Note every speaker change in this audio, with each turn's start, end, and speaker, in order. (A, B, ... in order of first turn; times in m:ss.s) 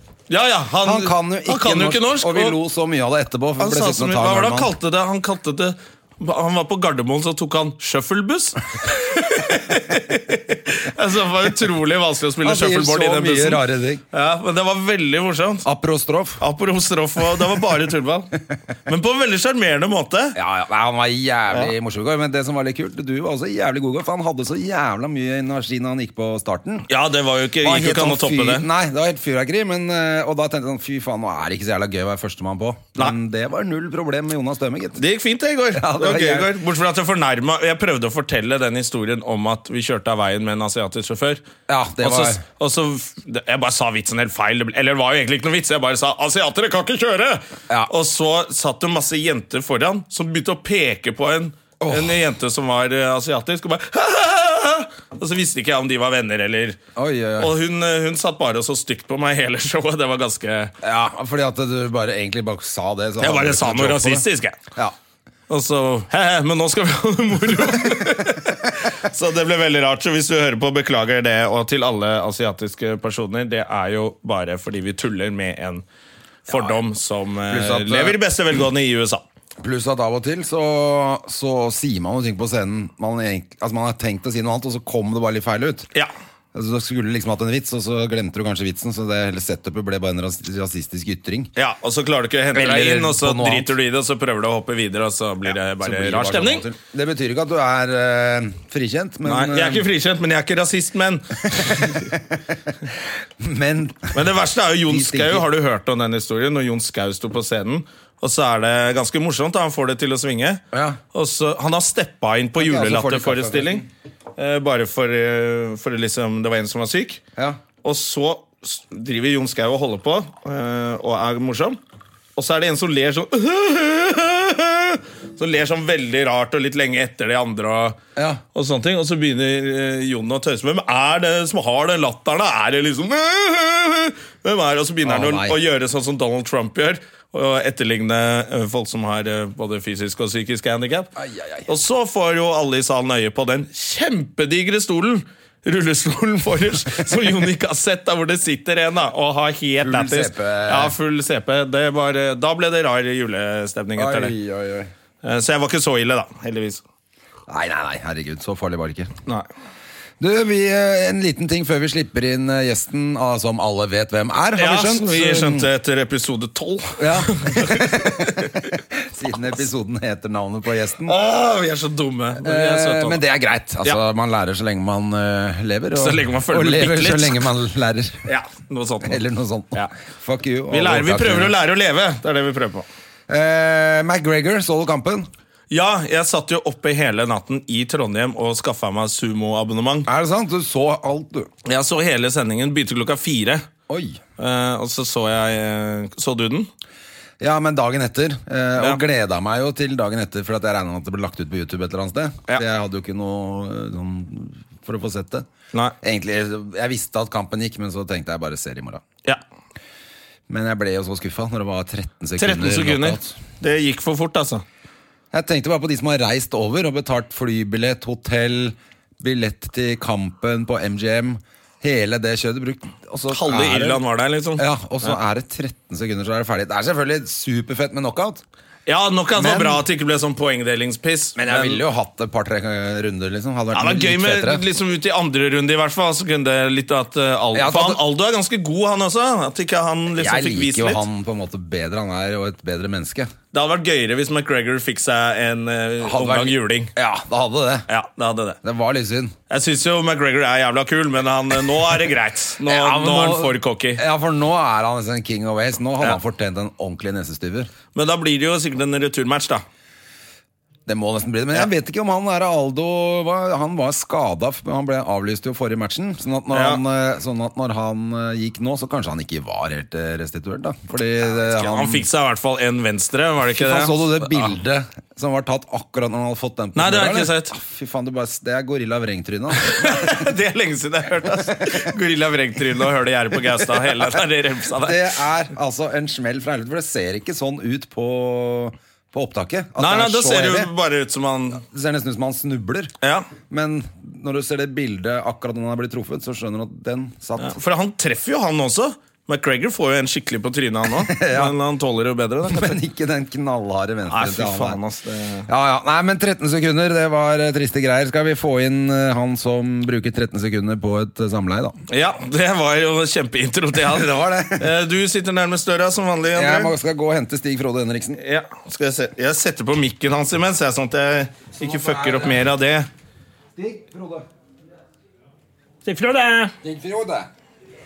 0:00.3-0:02.6 A
0:00.8-0:04.7 B
0:03.6-0:15.7 A
0:12.4-0:14.0 B
0:15.6-0:16.4 B
0:16.4-0:18.3 A
0:18.8-0:20.4 A
0:20.3-0:26.9 B
0:26.9-0:28.6 A
0:27.6-0:35.0 B
0:35.0-0:41.4 A
0:35.7-0:36.5 B
0:41.7-0:42.4 B
0:42.0-0:56.8 A
0:51.8-0:52.2 B
0:57.0-0:57.5 B
0:57.4-1:00.7 A
1:00.8-1:04.2 B
1:03.2-1:04.6 A
1:05.5-1:15.8 A
1:16.5-1:19.2 A
1:16.5-1:16.7 B
1:17.5-1:18.2 B
1:19.6-1:25.9 B
1:26.5-1:31.5 B
1:31.6-1:36.7 A
1:32.5-1:33.7 B
1:35.8-1:39.8 B
1:39.2-1:42.1 A
1:41.5-1:42.2 B
1:43.4-1:44.2 B
1:44.1-1:50.6 A
1:44.9-1:45.4 B
1:50.7-1:51.0 B
1:51.1-1:53.8 A
1:52.6-1:53.9 B
1:54.4-1:57.2 A
1:57.8-2:01.8 A
2:02.4-2:08.0 A
2:08.2-2:08.4 B
2:08.5-2:21.1 A
2:15.0-2:15.6 B
2:21.2-2:21.7 B
2:21.7-2:34.3 A
2:29.8-2:30.9 B
2:34.0-2:34.9 B
2:35.2-2:36.8 A
2:37.5-2:39.1 B
2:40.2-2:45.7 B
2:44.6-2:48.6 A
2:47.0-2:51.2 B
2:51.0-2:53.2 A
2:52.4-2:58.2 B
2:55.9-2:57.5 A
2:58.2-2:59.2 A
2:59.0-3:01.5 B
3:00.7-3:02.8 A
3:03.3-3:05.3 B
3:05.7-3:10.1 A
3:10.0-3:11.5 B
3:11.6-3:13.6 A
3:13.9-3:14.2 B
3:14.4-3:16.7 A
3:17.4-3:25.5 B
3:26.0-3:29.0 B
3:30.5-3:33.4 B
3:32.4-3:34.6 A
3:35.3-3:44.0 B
3:43.3-3:45.1 A
3:44.6-3:48.4 B
3:48.9-3:51.8 A
3:49.3-3:49.8 B
3:51.4-3:54.6 B
3:53.7-4:01.0 A
3:57.5-3:58.0 B
4:00.1-4:03.3 B
4:03.5-4:06.9 A
4:06.0-4:07.8 B
4:07.9-4:08.6 A
4:08.6-4:09.3 B
4:09.5-4:14.0 A
4:12.6-4:17.7 B
4:17.9-4:19.6 A
4:20.9-4:32.0 B
4:26.5-4:26.8 A
4:31.2-4:34.5 A
4:33.5-4:40.3 B
4:36.8-4:37.5 A
4:39.6-4:45.1 A
4:41.5-4:41.8 B
4:43.8-4:44.1 B
4:44.8-4:50.7 B
4:49.8-4:51.6 A
4:51.6-4:52.9 B
4:53.0-4:53.3 A
4:53.5-4:57.6 B
4:57.4-5:02.8 A
5:00.9-5:01.5 B
5:02.4-5:04.8 B
5:04.1-5:05.5 A
5:05.5-5:11.8 B
5:11.9-5:16.7 A
5:13.9-5:14.7 B
5:16.3-5:18.2 B
5:18.2-5:22.9 A
5:21.6-5:22.5 B
5:23.6-5:24.2 B
5:25.8-5:26.5 A
5:26.6-5:27.3 B